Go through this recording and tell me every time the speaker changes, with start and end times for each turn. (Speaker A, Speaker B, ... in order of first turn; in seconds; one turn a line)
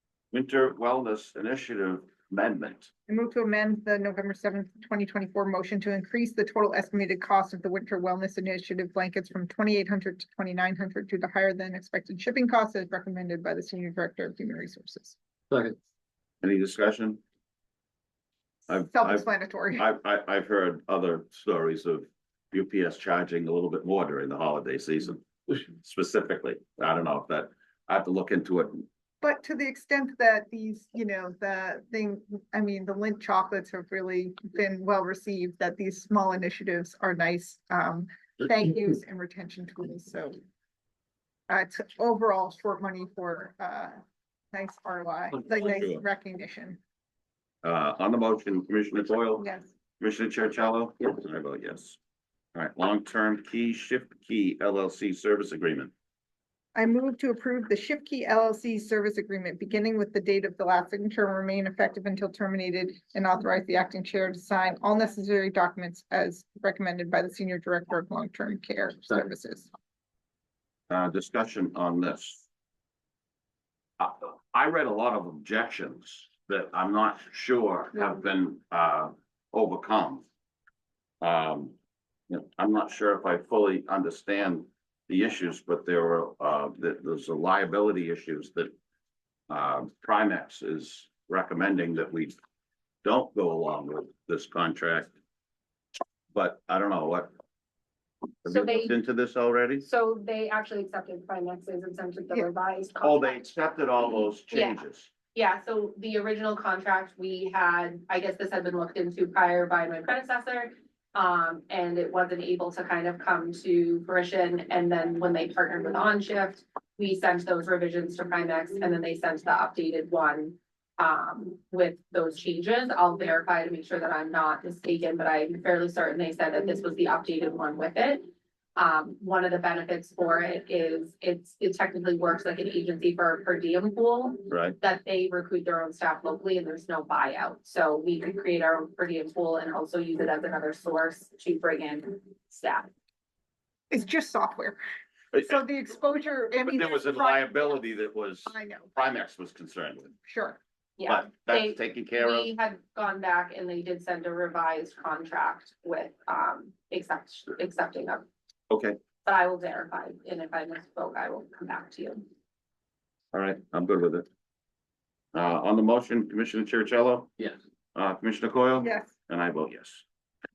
Speaker A: 0.3-2.9
Speaker B: 3.1-15.2
Speaker A: 16.4-17.2
Speaker A: 18.7-28.9
Speaker B: 18.7-19.8
Speaker B: 29.2-40.4
Speaker B: 41.5-44.0
Speaker B: 44.5-46.8
Speaker A: 45.6-46.0
Speaker A: 47.6-49.4
Speaker B: 49.4-49.7
Speaker A: 50.0-52.0
Speaker A: 52.5-55.9
Speaker B: 56.7-69.7
Speaker A: 70.9-72.5
Speaker A: 74.0-80.2
Speaker A: 81.2-81.8
Speaker A: 82.3-88.7
Speaker A: 89.5-92.3
Speaker A: 93.0-95.1
Speaker A: 96.3-97.3
Speaker A: 98.4-99.8
Speaker C: 98.5-98.9
Speaker C: 99.8-103.5
Speaker A: 103.0-105.1
Speaker C: 104.5-104.8
Speaker C: 105.3-142.9
Speaker A: 134.5-134.8
Speaker B: 143.9-144.8
Speaker B: 145.3-147.8
Speaker A: 146.6-150.1
Speaker B: 148.4-148.9
Speaker B: 150.2-150.6
Speaker C: 151.0-158.2
Speaker A: 151.1-152.5
Speaker A: 158.7-159.0
Speaker C: 159.2-162.2
Speaker A: 163.3-164.2
Speaker A: 165.3-167.3
Speaker A: 167.9-170.1
Speaker B: 168.8-169.1